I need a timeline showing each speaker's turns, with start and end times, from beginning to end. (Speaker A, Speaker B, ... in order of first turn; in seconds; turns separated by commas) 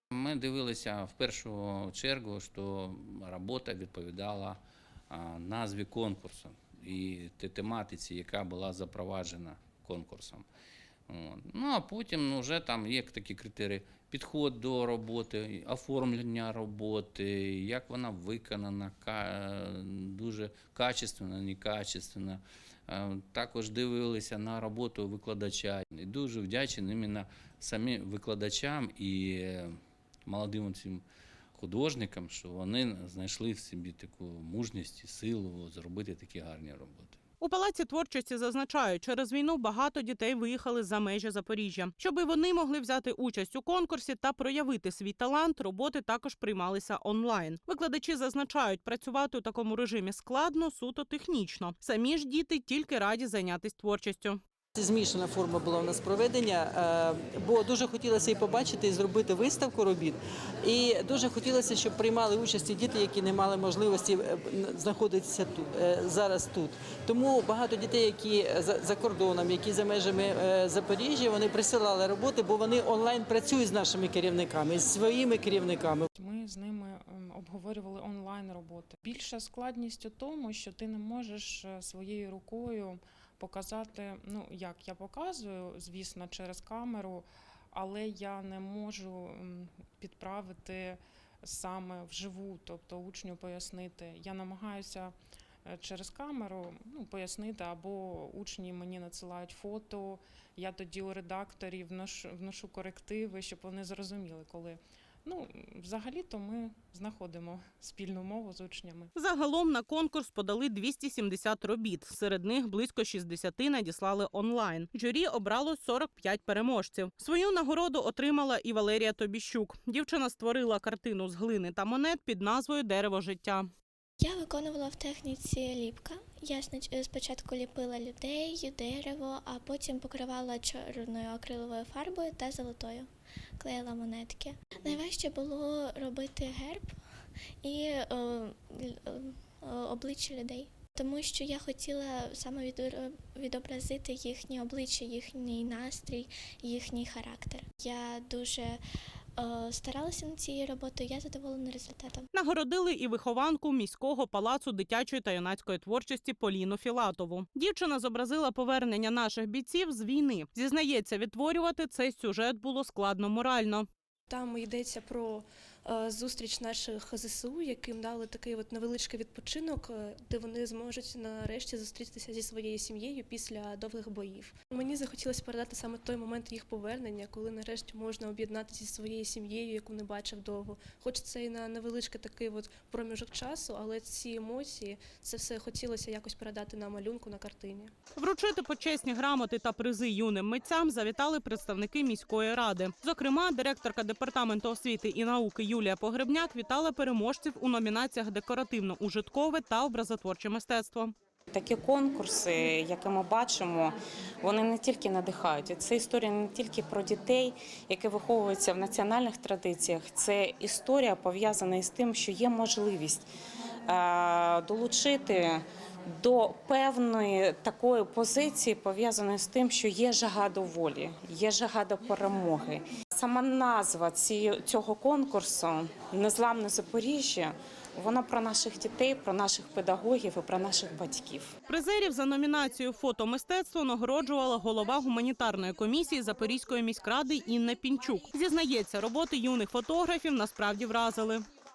Speaker A: 0.1-4.6, Speaker A: 5.1-10.4, Speaker A: 11.1-29.7, Speaker A: 30.2-31.0, Speaker A: 31.5-37.2, Speaker B: 37.4-54.4, Speaker C: 54.8-76.1, Speaker D: 76.2-95.1, Speaker D: 95.7-109.1, Speaker B: 109.2-123.7, Speaker E: 124.2-133.1, Speaker E: 133.6-136.9, Speaker E: 137.6-148.8, Speaker E: 149.4-152.3, Speaker B: 152.3-163.9, Speaker F: 164.3-187.9, Speaker B: 188.2-201.1, Speaker G: 201.5-213.3, Speaker G: 213.9-215.6, Speaker G: 216.2-231.5, Speaker B: 231.7-241.4